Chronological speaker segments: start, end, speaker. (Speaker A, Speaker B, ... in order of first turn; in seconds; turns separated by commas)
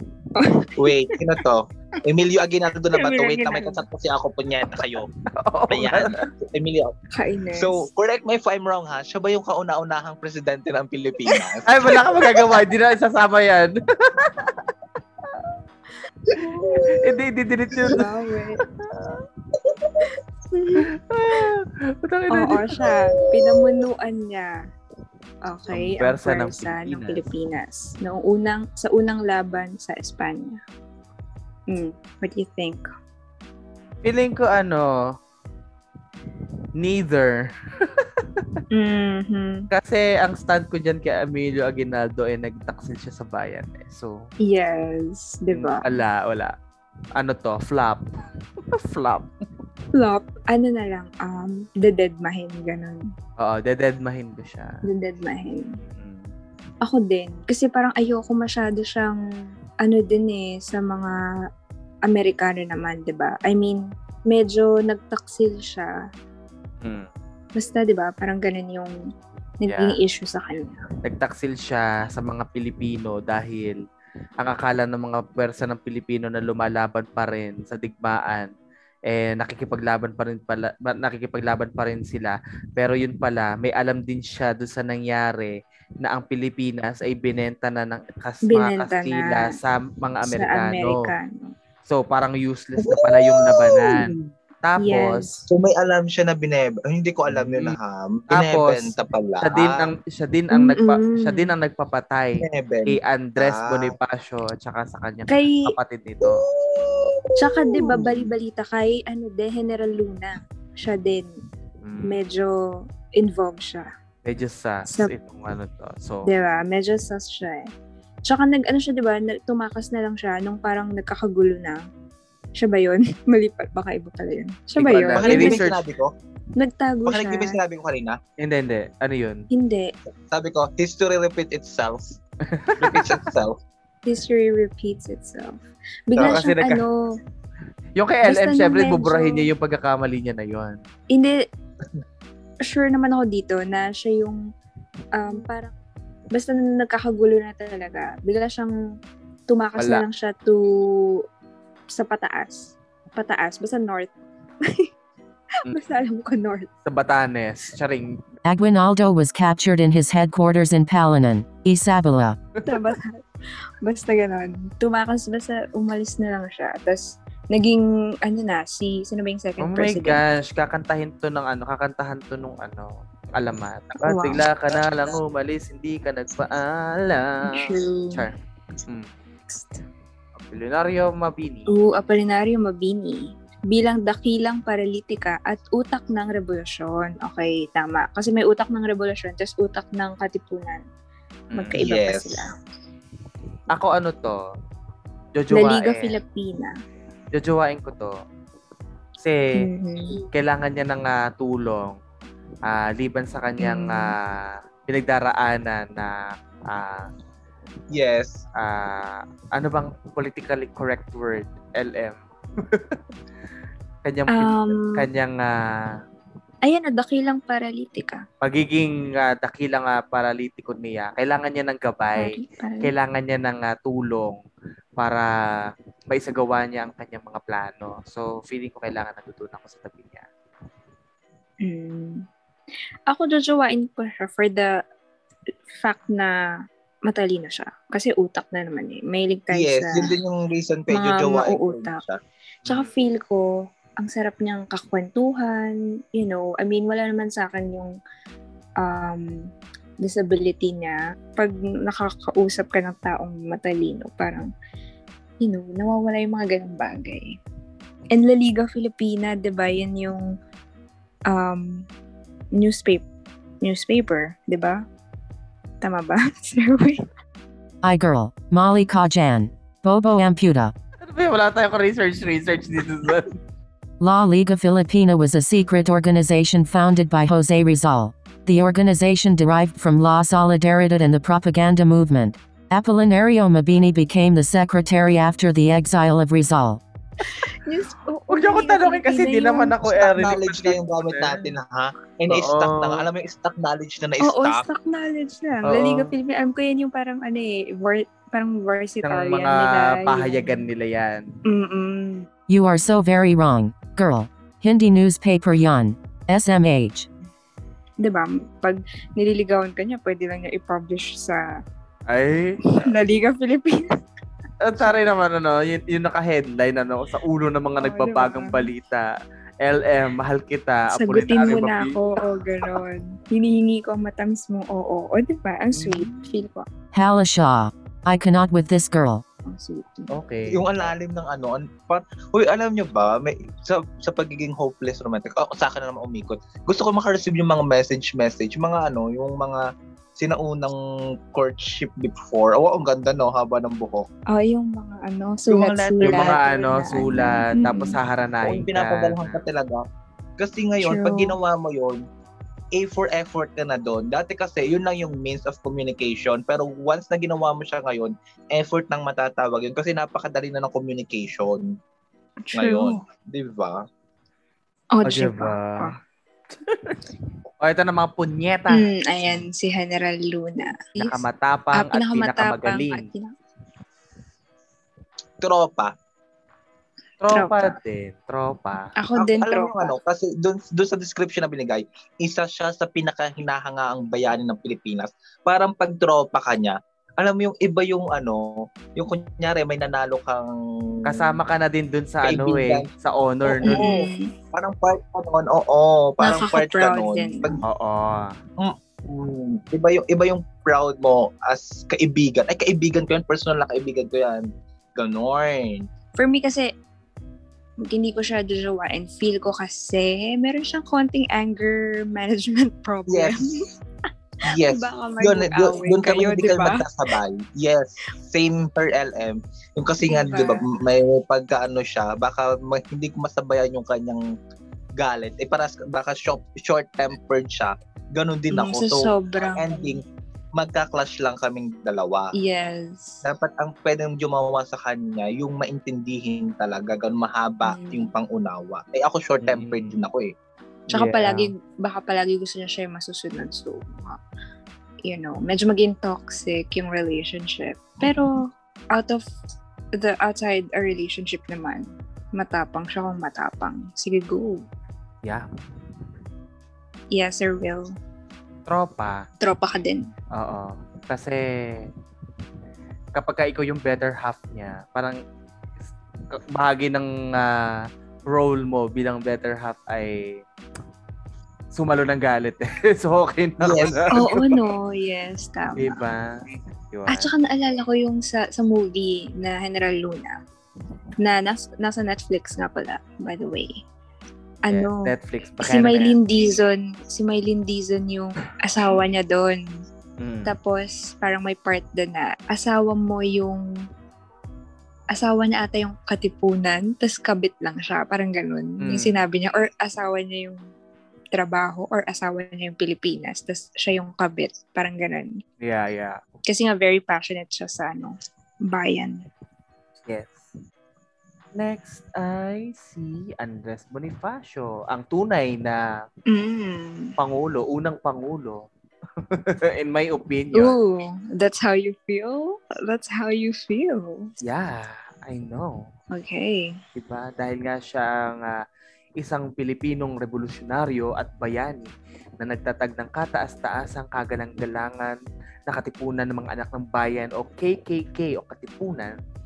Speaker A: 0.4-1.2, Speaker B: 0.8-5.1, Speaker A: 2.9-3.8, Speaker C: 5.3-6.3, Speaker B: 5.7-6.9, Speaker A: 7.1-7.9, Speaker B: 7.6-11.9, Speaker C: 11.7-14.7, Speaker A: 16.4-17.0, Speaker B: 16.6-17.0, Speaker C: 16.9-18.1, Speaker A: 17.8-18.6, Speaker C: 18.9-19.2, Speaker A: 20.5-21.4, Speaker C: 20.8-22.9, Speaker A: 22.3-24.6, Speaker B: 22.8-23.8, Speaker A: 25.4-30.6, Speaker C: 25.7-27.2, Speaker A: 31.7-32.9, Speaker C: 34.0-35.1, Speaker C: 36.8-38.6, Speaker A: 38.7-39.7, Speaker C: 39.7-44.3, Speaker A: 44.5-45.9, Speaker C: 45.5-46.5, Speaker C: 47.2-48.0, Speaker C: 48.7-49.3, Speaker A: 49.9-53.1, Speaker C: 53.4-54.7, Speaker A: 54.9-55.8, Speaker C: 55.9-56.3, Speaker A: 56.8-59.2, Speaker A: 59.8-61.2, Speaker A: 62.1-65.9, Speaker C: 66.8-67.1, Speaker A: 67.5-68.9, Speaker A: 69.6-70.8, Speaker C: 69.7-70.0, Speaker C: 71.0-73.8, Speaker C: 74.4-78.5, Speaker C: 79.1-91.1, Speaker A: 88.5-89.6, Speaker A: 90.2-91.5, Speaker C: 91.8-95.4, Speaker B: 92.8-94.3, Speaker A: 94.8-95.4, Speaker B: 95.5-99.9, Speaker C: 97.3-97.8, Speaker C: 98.3-106.4, Speaker A: 100.5-101.5, Speaker B: 102.4-104.0, Speaker A: 105.3-105.7, Speaker B: 106.2-108.3, Speaker A: 107.4-111.3, Speaker C: 111.8-112.2, Speaker A: 112.1-112.5, Speaker A: 113.1-113.9, Speaker C: 114.2-116.3, Speaker A: 116.3-117.7, Speaker A: 118.3-121.8, Speaker A: 122.6-125.6, Speaker C: 124.8-125.8, Speaker B: 125.1-126.1, Speaker A: 126.6-127.6, Speaker B: 127.1-128.2, Speaker C: 128.4-129.5, Speaker A: 129.5-129.9, Speaker B: 130.3-132.2, Speaker C: 132.5-133.2, Speaker B: 132.8-133.6, Speaker A: 134.1-136.9, Speaker B: 136.2-136.4, Speaker C: 136.2-136.8, Speaker C: 138.0-140.8, Speaker A: 138.3-139.5, Speaker A: 141.1-141.4, Speaker A: 142.6-144.4, Speaker A: 145.1-145.7, Speaker A: 146.3-148.7, Speaker A: 149.5-151.2, Speaker C: 149.8-150.1, Speaker A: 151.9-154.9, Speaker A: 155.7-156.7, Speaker C: 156.9-158.2, Speaker D: 158.4-162.4, Speaker C: 162.6-162.9, Speaker A: 162.7-163.2, Speaker A: 163.8-170.2, Speaker C: 169.6-178.3, Speaker A: 174.0-174.4, Speaker A: 177.5-178.3, Speaker A: 179.5-179.8, Speaker C: 180.4-181.8, Speaker A: 181.7-190.8, Speaker C: 191.5-191.8, Speaker A: 191.6-192.5, Speaker B: 191.8-192.3, Speaker C: 193.7-194.4, Speaker C: 195.3-196.1, Speaker A: 195.5-196.7, Speaker C: 197.3-198.2, Speaker C: 199.2-199.4, Speaker A: 199.6-200.2, Speaker C: 200.3-202.0, Speaker C: 202.7-207.1, Speaker A: 203.6-204.2, Speaker B: 207.9-208.4, Speaker C: 208.6-213.0, Speaker C: 214.0-215.5, Speaker A: 214.3-214.9, Speaker A: 216.6-218.2, Speaker C: 218.4-224.4, Speaker A: 222.2-222.9, Speaker C: 225.0-225.3, Speaker C: 226.1-230.3, Speaker A: 231.6-232.2, Speaker A: 233.1-234.7, Speaker A: 235.8-236.3, Speaker A: 237.1-240.1, Speaker B: 239.5-242.2, Speaker A: 240.9-242.0, Speaker A: 242.7-243.4, Speaker A: 244.0-247.9, Speaker A: 248.8-249.4, Speaker A: 250.0-254.5, Speaker A: 255.4-257.3, Speaker A: 258.1-260.3, Speaker A: 261.3-261.9, Speaker A: 262.6-263.1, Speaker A: 263.6-264.8, Speaker A: 265.8-267.1, Speaker D: 267.8-270.7, Speaker C: 271.0-273.4, Speaker D: 274.0-286.8, Speaker A: 287.2-289.8, Speaker C: 288.3-291.4, Speaker B: 289.9-294.7, Speaker C: 292.3-293.1, Speaker A: 294.2-300.7, Speaker C: 295.6-296.1, Speaker C: 299.0-301.3, Speaker A: 301.5-302.3, Speaker D: 302.5-307.1, Speaker A: 308.0-311.5, Speaker C: 312.1-312.9, Speaker A: 312.7-313.9, Speaker C: 314.6-319.1, Speaker A: 317.8-318.6, Speaker C: 319.6-322.0, Speaker A: 320.9-326.7, Speaker C: 325.7-326.4, Speaker D: 326.9-329.2, Speaker A: 329.4-330.1, Speaker C: 330.1-330.9, Speaker B: 330.5-339.6, Speaker B: 340.2-340.8, Speaker B: 341.3-344.1, Speaker A: 344.3-348.0, Speaker B: 345.5-346.4, Speaker C: 346.0-349.4, Speaker B: 348.4-349.8, Speaker B: 350.4-352.0, Speaker A: 350.8-351.4, Speaker B: 352.8-361.8, Speaker A: 362.4-363.0, Speaker B: 362.5-363.8, Speaker A: 364.9-365.9, Speaker C: 365.1-365.9, Speaker C: 366.6-367.1, Speaker C: 367.6-368.9, Speaker A: 368.7-371.2, Speaker C: 371.0-373.1, Speaker A: 371.7-373.3, Speaker B: 375.4-375.9, Speaker C: 377.2-378.9, Speaker A: 377.3-377.8, Speaker A: 379.0-379.9, Speaker B: 379.2-390.5, Speaker C: 391.1-393.9, Speaker B: 392.2-392.9, Speaker B: 393.4-397.6, Speaker A: 393.7-394.3, Speaker A: 396.2-397.6, Speaker C: 397.7-398.3, Speaker B: 398.6-405.9, Speaker A: 406.2-406.7, Speaker A: 407.9-413.7, Speaker B: 413.1-413.5, Speaker B: 414.4-424.2, Speaker A: 414.6-416.9, Speaker A: 420.1-420.6, Speaker B: 425.0-430.0, Speaker A: 428.5-430.0, Speaker B: 430.6-432.3, Speaker A: 432.4-433.2, Speaker B: 433.2-440.3, Speaker A: 437.7-438.1, Speaker C: 439.4-439.9, Speaker C: 440.9-441.5, Speaker A: 440.9-444.2, Speaker A: 445.1-449.2, Speaker A: 450.0-454.6, Speaker A: 457.1-457.9, Speaker C: 458.7-459.2, Speaker A: 459.4-460.1, Speaker C: 460.4-461.9, Speaker C: 463.1-465.2, Speaker C: 465.8-470.4, Speaker C: 471.7-474.4, Speaker B: 473.6-474.4, Speaker A: 474.1-476.0, Speaker C: 475.8-477.3, Speaker A: 477.1-480.4, Speaker A: 481.2-483.8, Speaker A: 484.6-489.6, Speaker C: 484.7-486.2, Speaker C: 490.2-490.5, Speaker A: 490.5-493.6, Speaker A: 495.1-500.6, Speaker C: 498.8-499.2, Speaker A: 501.3-505.3, Speaker C: 505.6-506.2, Speaker A: 506.5-508.1, Speaker A: 508.7-509.2, Speaker C: 510.1-510.5, Speaker C: 511.6-515.8, Speaker A: 516.3-517.1, Speaker C: 517.2-518.7, Speaker C: 519.3-520.8, Speaker A: 520.5-524.3, Speaker C: 524.4-525.9, Speaker A: 526.1-526.8, Speaker C: 527.0-528.6, Speaker C: 529.2-539.2